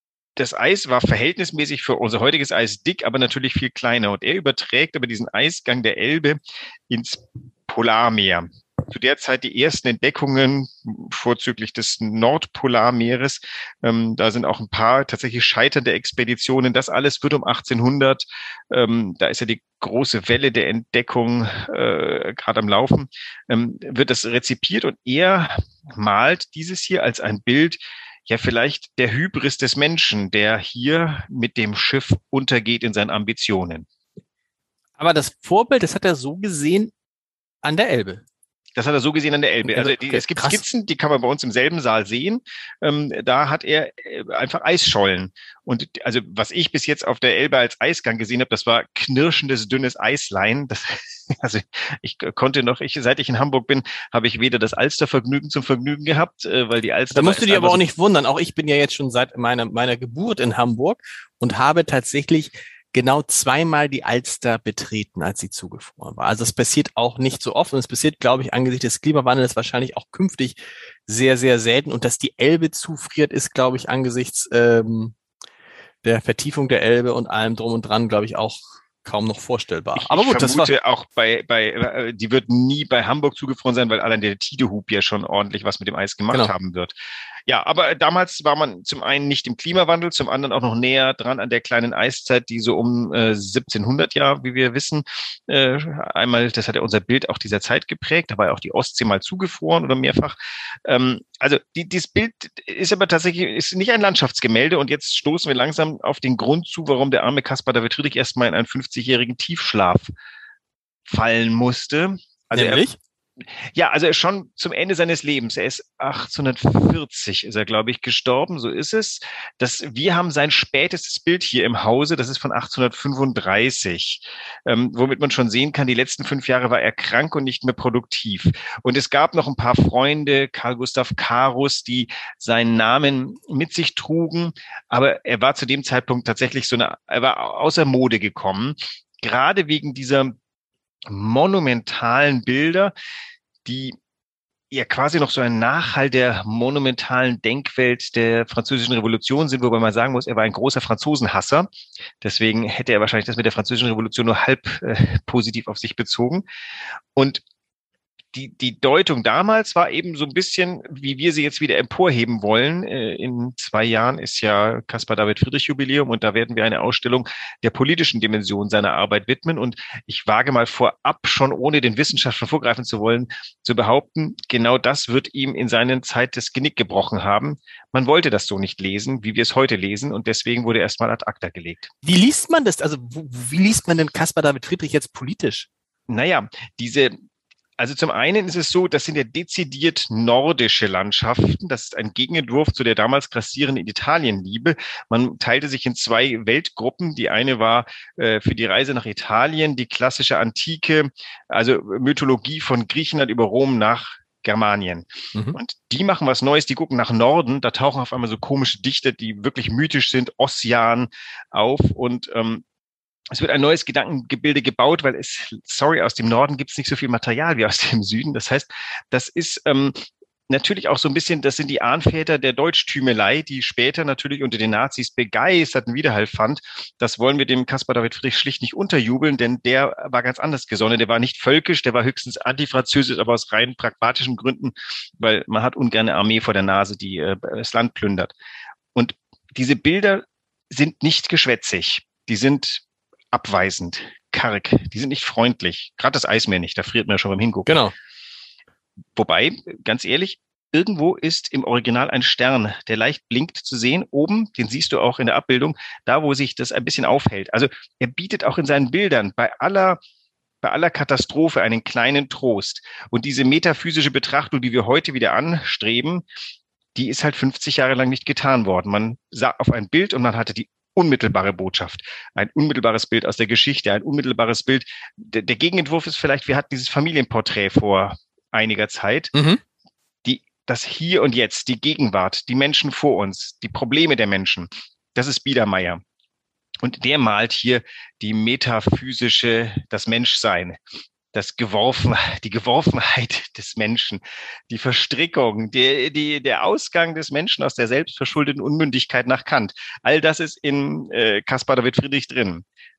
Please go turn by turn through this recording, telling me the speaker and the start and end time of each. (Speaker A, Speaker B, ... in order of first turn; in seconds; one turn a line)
Speaker A: 0.3-33.9
Speaker B: 35.0-36.9
Speaker B: 37.6-38.2
Speaker A: 38.8-57.8
Speaker B: 39.6-40.6
Speaker B: 57.1-75.1
Speaker B: 76.0-80.7
Speaker A: 79.9-86.9
Speaker A: 87.5-110.1
Speaker A: 111.1-112.8
Speaker B: 112.5-113.0
Speaker A: 113.7-140.3
Speaker A: 141.1-142.9
Speaker A: 143.6-144.0
Speaker A: 144.7-151.7
Speaker A: 152.2-156.4
Speaker A: 157.1-157.4
Speaker A: 158.3-181.9
Speaker B: 182.0-185.7
Speaker A: 186.1-187.1
Speaker A: 187.8-212.6
Speaker A: 213.3-238.3
Speaker A: 238.9-247.8
Speaker B: 247.7-247.9
Speaker A: 249.1-260.0
Speaker A: 260.6-266.2
Speaker A: 266.9-279.3
Speaker B: 279.3-279.6
Speaker A: 280.2-286.0
Speaker A: 286.8-290.8
Speaker A: 291.3-302.6